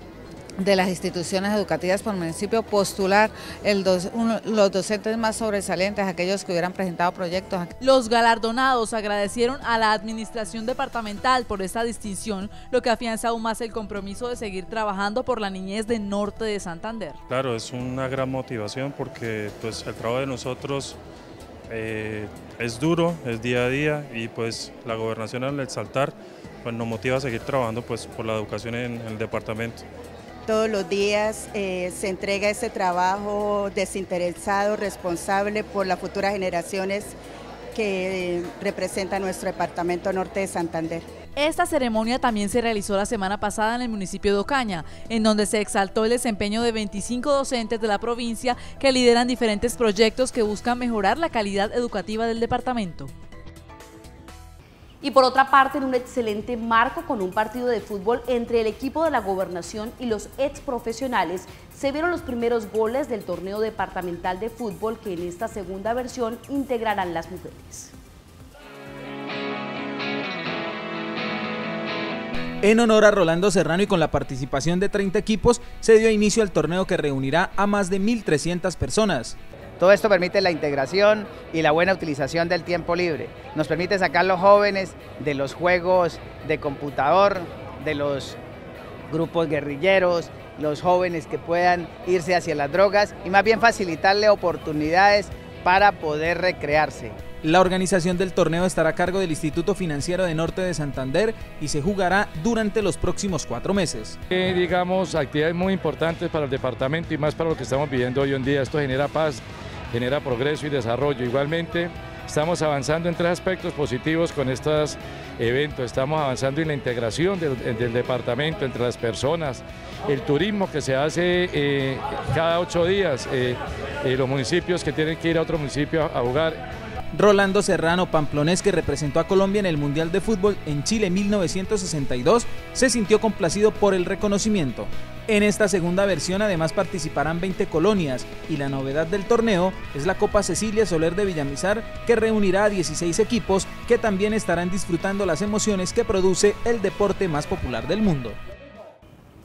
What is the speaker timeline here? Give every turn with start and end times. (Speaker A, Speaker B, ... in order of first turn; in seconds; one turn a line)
Speaker A: 0.6-7.7
Speaker B: 7.8-17.2
Speaker C: 17.3-21.0
Speaker C: 21.7-29.8
Speaker D: 30.5-37.1
Speaker D: 37.8-41.0
Speaker B: 41.4-53.1
Speaker E: 55.0-67.9
Speaker F: 72.6-79.3
Speaker G: 79.8-88.4
Speaker G: 89.1-97.2
Speaker F: 97.4-104.2
Speaker H: 104.4-109.4
Speaker H: 109.9-126.6
Speaker F: 127.1-148.4